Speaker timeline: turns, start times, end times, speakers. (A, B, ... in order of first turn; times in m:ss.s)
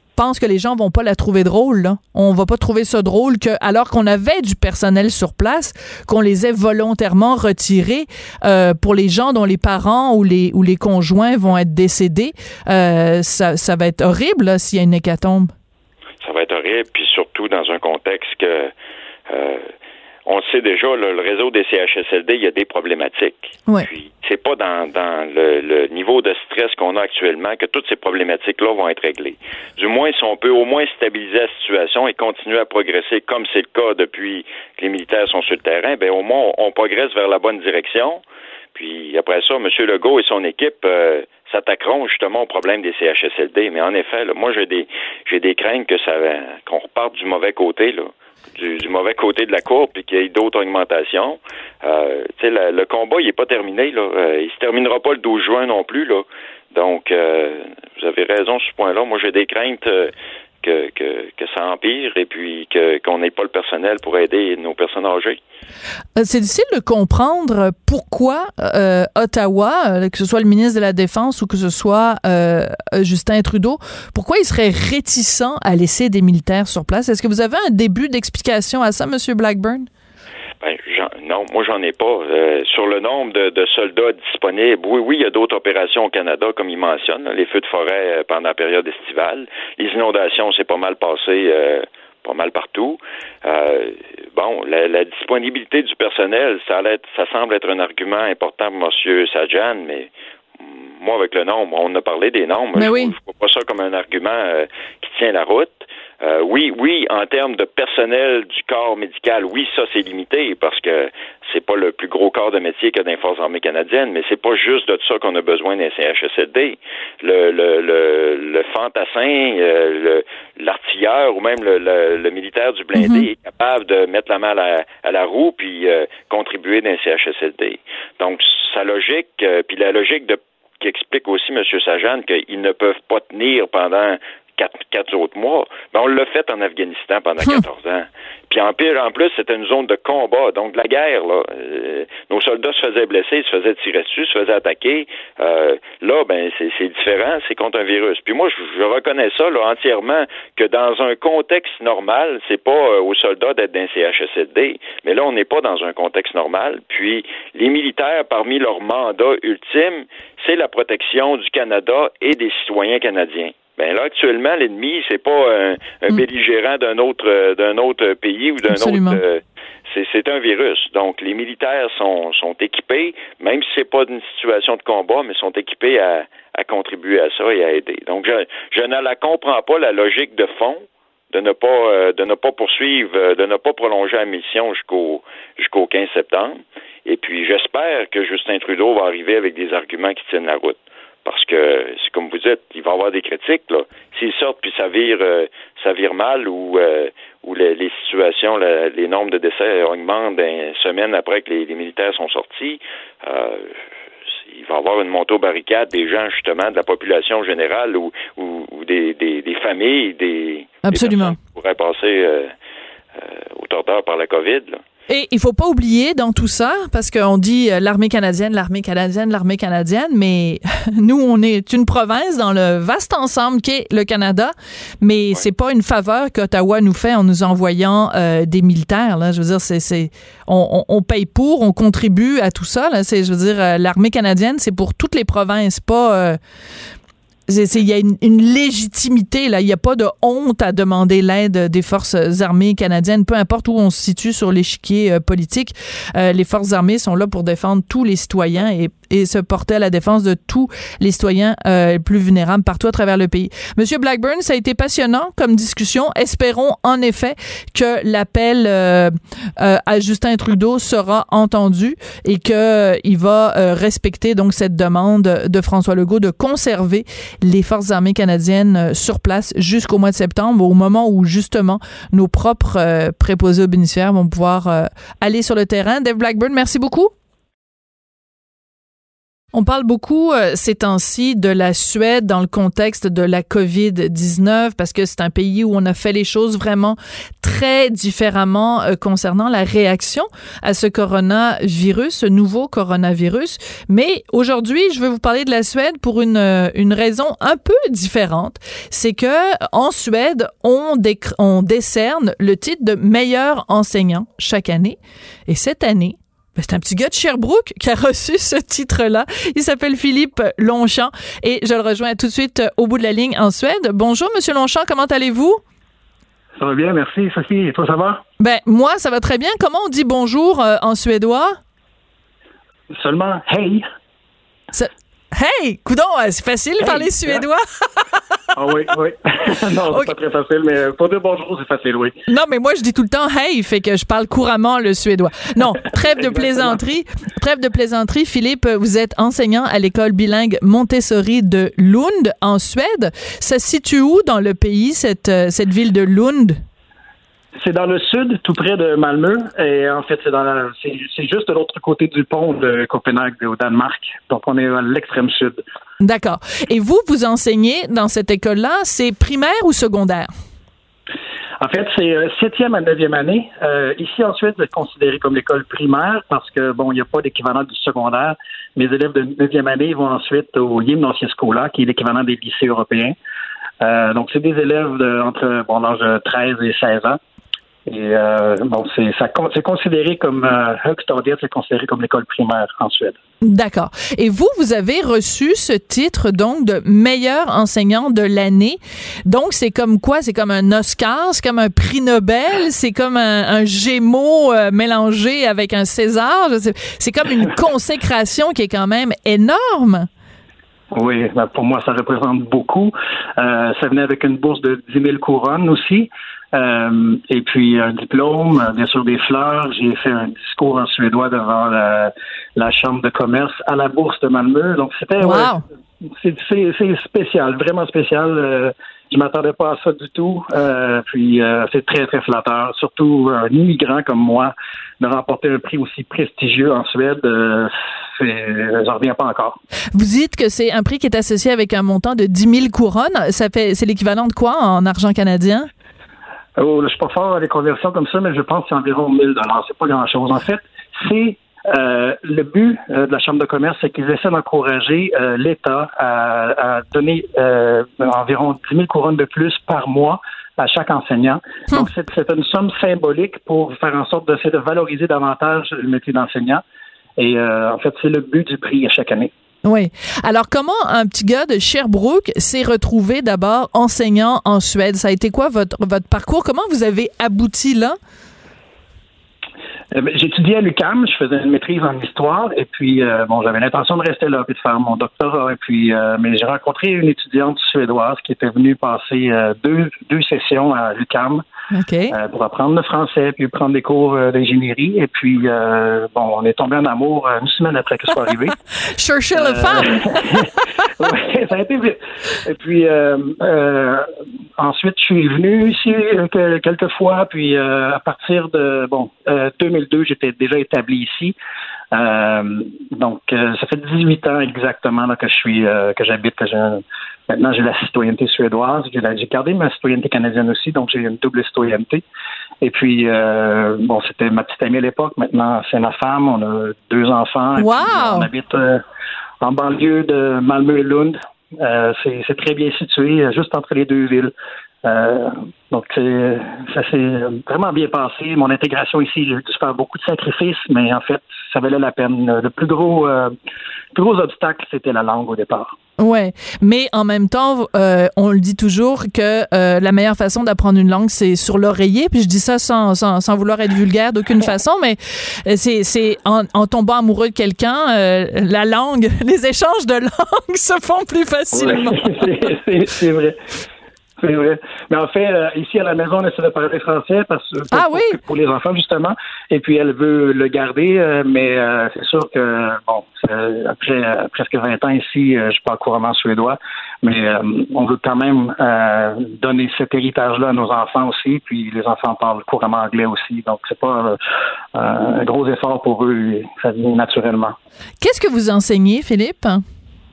0:00.2-0:15.5 A
0:16.2-0:18.7 B
0:19.3-0:19.7 B
0:20.2-0:38.2 B
0:38.7-1:05.4 B
1:06.2-1:19.9 A
1:20.6-1:40.1 B
1:40.6-3:23.7 B
1:42.8-1:43.1 A
2:03.0-2:03.3 A
2:48.7-2:49.2 A
3:24.5-3:32.5 B
3:30.9-3:31.4 A
3:33.2-3:34.8 B
3:35.1-3:56.4 A
3:57.5-4:37.1 A
4:39.5-5:05.0 A
5:05.5-5:15.6 A
5:16.6-5:18.2 C
5:18.4-5:21.6 A
5:22.9-5:23.8 C
5:24.7-5:28.1 A
5:26.8-5:27.4 C
5:28.5-5:32.2 C
5:32.3-5:46.6 A
5:36.0-5:36.8 C
5:47.6-5:55.6 C
5:56.0-6:00.3 A
6:01.6-6:13.1 C
6:13.8-6:17.2 C
6:17.9-6:23.2 C
6:23.4-6:40.1 A
6:40.9-7:09.6 C
6:55.2-6:55.6 A
7:09.9-7:15.7 A
7:16.6-7:36.6 C
7:37.2-7:39.3 C
7:39.6-7:48.0 A
7:49.9-8:01.4 C
8:01.7-8:02.1 A
8:02.1-8:08.6 C
8:08.9-8:10.4 A
8:09.3-8:21.4 C
8:21.9-8:32.0 C
8:32.6-8:38.8 C
8:37.6-8:38.3 A
8:39.4-8:44.3 C
8:44.8-8:53.3 C
8:53.9-8:55.7 C
8:56.0-9:12.5 A
9:11.5-9:13.4 C
9:14.2-9:34.2 C
9:17.7-9:18.2 A
9:34.7-9:37.6 C
9:38.0-9:39.6 A